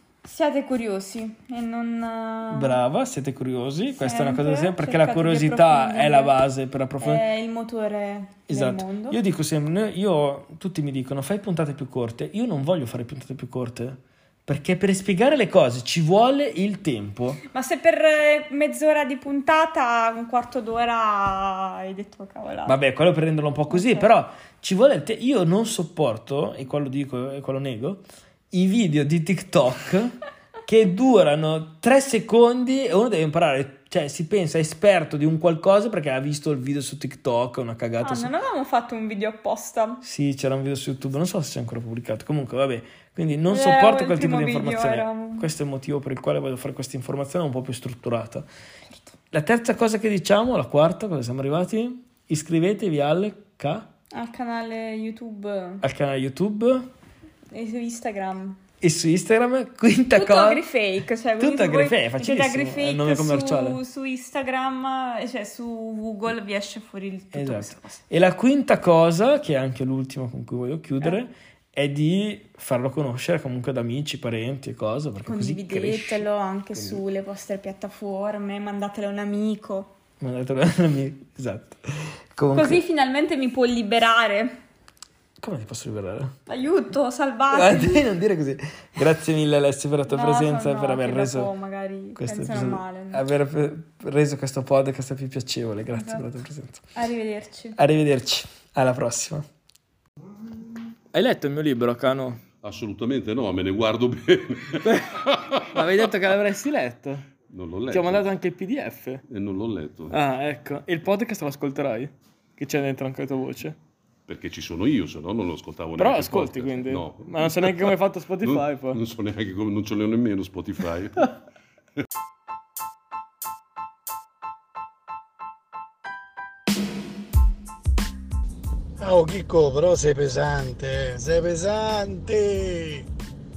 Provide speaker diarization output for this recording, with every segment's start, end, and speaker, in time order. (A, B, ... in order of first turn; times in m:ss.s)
0:00.2-0:02.8 A
0:02.5-0:07.2 B
0:04.0-0:06.4 A
0:07.0-0:09.2 A
0:08.5-0:17.4 B
0:17.5-0:22.8 A
0:22.7-0:38.3 B
0:23.7-0:24.0 A
0:38.0-0:40.0 A
0:40.0-0:48.5 B
0:43.5-0:45.5 A
0:49.3-0:53.9 B
0:54.1-0:55.8 A
0:55.8-0:56.9 B
0:57.5-0:58.6 A
0:58.8-1:00.7 B
1:00.1-1:08.0 A
1:01.4-1:03.8 B
1:07.3-1:17.0 B
1:15.2-1:19.9 A
1:20.2-1:22.8 B
1:22.5-1:24.6 A
1:25.4-1:26.4 B
1:26.5-1:28.0 A
1:27.5-1:31.5 B
1:30.1-1:33.2 A
1:32.2-1:36.8 B
1:36.0-1:36.3 A
1:36.9-1:37.8 A
1:37.8-1:39.5 B
1:41.1-1:42.4 B
1:42.6-1:45.5 C
1:44.8-1:47.3 B
1:47.5-1:48.3 C
1:47.9-1:49.2 B
1:49.3-1:50.1 C
1:50.1-1:53.8 B
1:54.3-1:57.9 C
1:56.0-1:59.0 B
1:58.4-2:01.3 C
2:09.0-2:13.1 D